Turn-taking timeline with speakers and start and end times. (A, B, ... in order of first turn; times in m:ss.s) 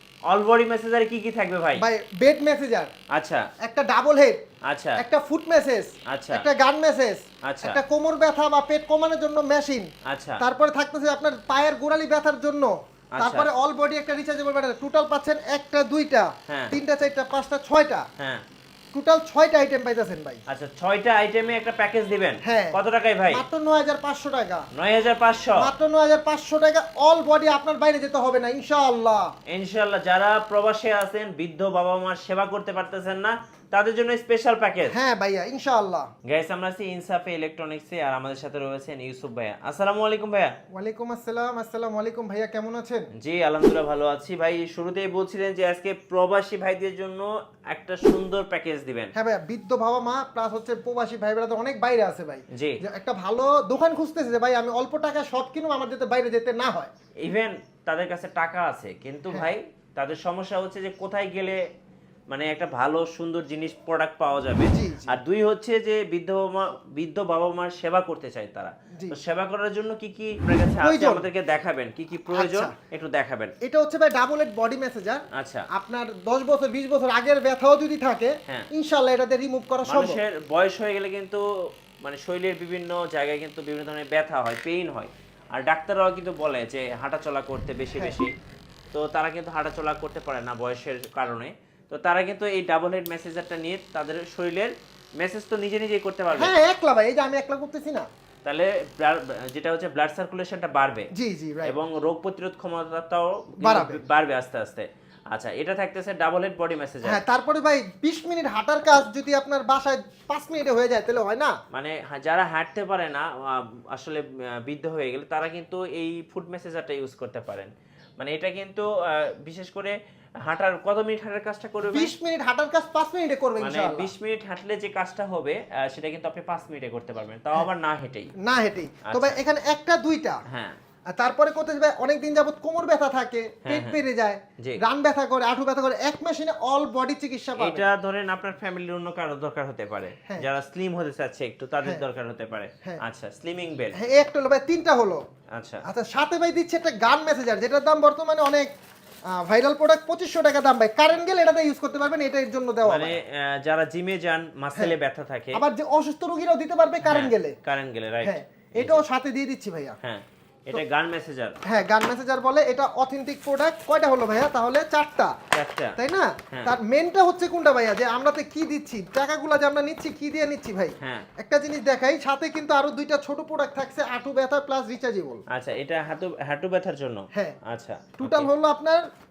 0:00.3-0:01.8 A
0:01.8-0:02.9 B
0:03.1-0:03.4 A
0:03.6-0:04.4 B
0:04.7-0:05.0 A
0:05.0-0:18.0 B
0:06.1-0:06.4 A
0:07.4-0:07.8 A
0:10.1-0:10.4 A
0:13.2-0:13.5 A
0:16.5-0:16.8 A
0:18.2-0:18.4 A
0:18.9-0:20.4 B
0:20.5-0:23.4 A
0:22.4-0:22.8 B
0:23.3-0:24.7 B
0:24.7-0:25.7 A
0:25.6-0:29.3 B
0:29.5-0:34.9 A
0:34.9-0:36.1 B
0:36.2-0:40.5 A
0:40.7-0:43.1 B
0:43.2-0:49.1 A
0:49.1-0:56.9 B
0:52.5-0:52.8 A
0:57.2-1:01.6 A
1:02.3-1:13.5 A
1:04.7-1:05.2 B
1:10.8-1:11.2 B
1:12.3-1:12.7 B
1:13.6-1:20.2 B
1:15.4-1:15.6 A
1:19.8-1:21.4 A
1:22.0-1:28.3 A
1:28.9-1:36.5 A
1:36.4-1:38.1 B
1:38.4-1:41.1 A
1:41.1-1:41.8 B
1:41.6-1:47.2 A
1:43.6-1:44.0 B
1:47.0-1:51.5 B
1:51.7-2:02.1 A
2:01.9-2:04.1 B
2:03.6-2:08.3 A
2:08.4-2:10.4 B
2:09.1-2:09.4 A
2:10.5-2:10.8 A
2:11.1-2:17.8 B
2:13.6-2:14.0 A
2:17.6-2:24.0 A
2:23.9-2:25.2 B
2:25.6-2:25.8 A
2:25.8-2:28.7 B
2:29.4-2:33.2 B
2:32.8-2:35.6 A
2:35.5-2:37.6 B
2:37.0-2:39.0 A
2:38.2-2:40.0 B
2:40.0-2:41.6 A
2:41.7-2:45.3 B
2:45.5-2:45.9 A
2:46.0-2:55.4 B
2:51.0-2:51.3 A
2:55.5-2:58.5 A
2:58.2-2:59.0 B